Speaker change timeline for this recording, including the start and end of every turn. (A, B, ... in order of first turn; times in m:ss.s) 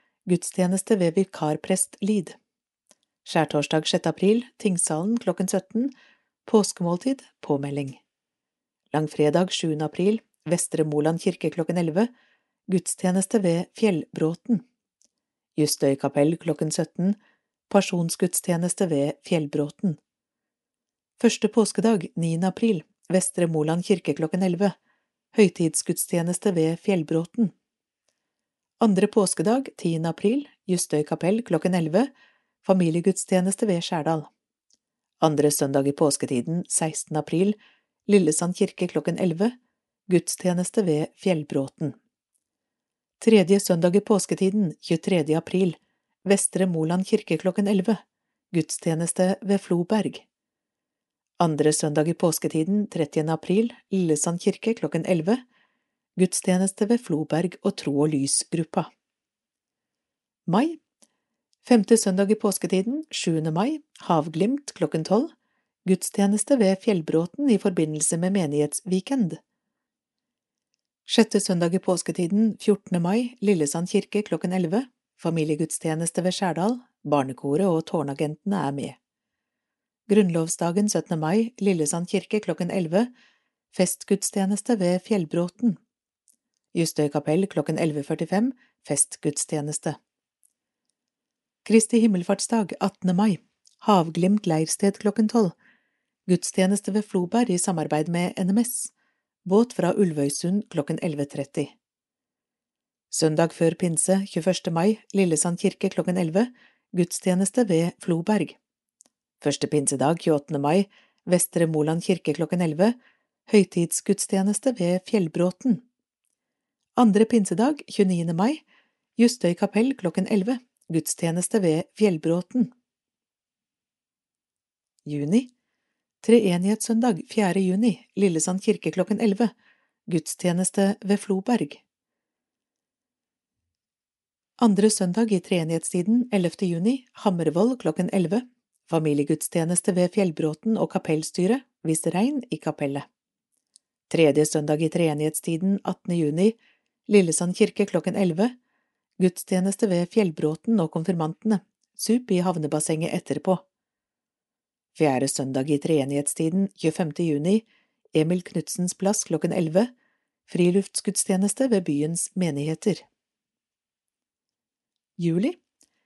0:00.3-0:02.4 A
0:03.2-0:05.9 A
0:06.4-0:08.0 A
0:08.9-0:12.1 A
0:12.7-0:14.6 A
0:15.6-0:17.2 A
0:17.7-0:20.0 A
0:21.2-0:24.7 A
0:25.3-0:27.5 A
0:28.8-0:32.1 A
0:32.6-0:34.3 A
0:35.2-0:39.5 A
0:40.1-0:42.0 A
0:43.2-0:48.0 A
0:48.5-0:50.2 A
0:51.4-0:55.4 A
0:56.2-0:58.9 A
1:00.5-1:00.8 A
1:01.6-1:05.3 A
1:05.8-1:09.4 A
1:11.1-1:19.0 A
1:20.1-1:23.1 A
1:23.7-1:25.8 A
1:26.7-1:30.0 A
1:31.6-1:35.5 A
1:36.3-1:38.9 A
1:39.4-1:41.7 A
1:43.1-1:48.6 A
1:49.4-1:53.0 A
1:53.5-1:55.8 A
1:57.0-1:58.6 A
1:59.2-2:02.7 A
2:05.0-2:05.5 A
2:06.2-2:09.5 A
2:10.1-2:11.8 A
2:14.6-2:23.0 A
2:24.1-2:26.6 A
2:27.1-2:28.5 A
2:29.2-2:33.6 A
2:34.9-2:39.9 A
2:40.5-2:43.0 A
2:45.2-2:45.6 A